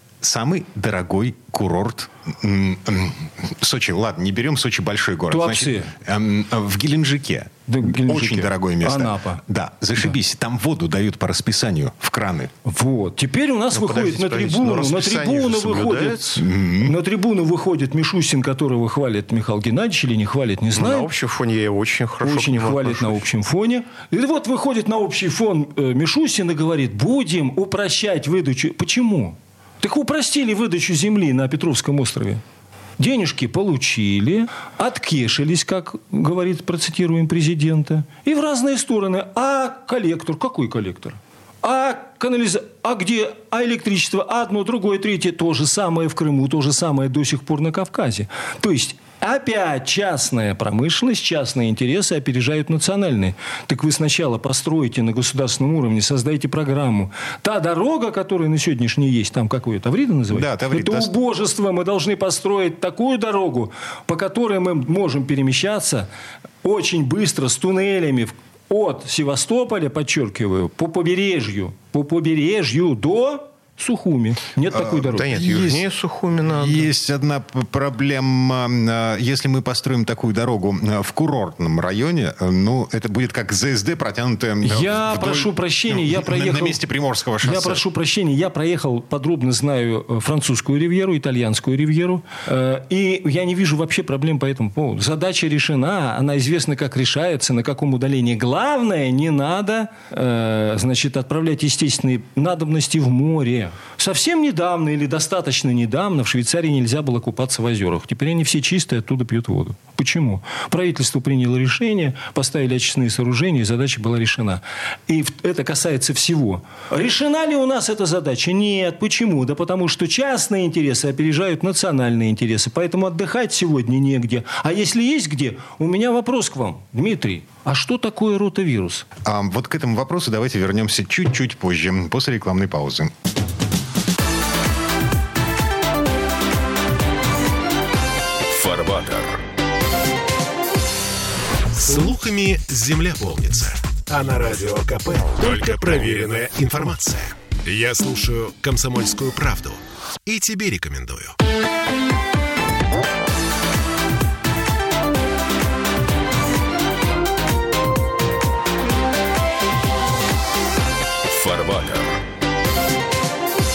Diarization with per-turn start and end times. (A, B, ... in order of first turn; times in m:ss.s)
0:00.2-0:12.5 A
0:05.3-0:05.9 B
0:07.7-0:09.4 B
0:12.6-0:21.1 B
0:13.7-0:16.4 C
0:16.4-0:16.9 A
0:20.7-0:23.2 C
0:22.2-0:32.4 B
0:33.0-1:06.1 B
1:00.3-1:01.1 A
1:06.6-1:15.4 B
1:14.7-1:15.8 A
1:15.1-1:16.9 C
1:16.5-1:27.8 A
1:24.6-1:26.8 B
1:27.4-2:09.1 B
2:09.2-2:13.1 A
2:18.4-2:19.4 D
2:21.7-2:31.4 D
2:41.2-2:42.2 D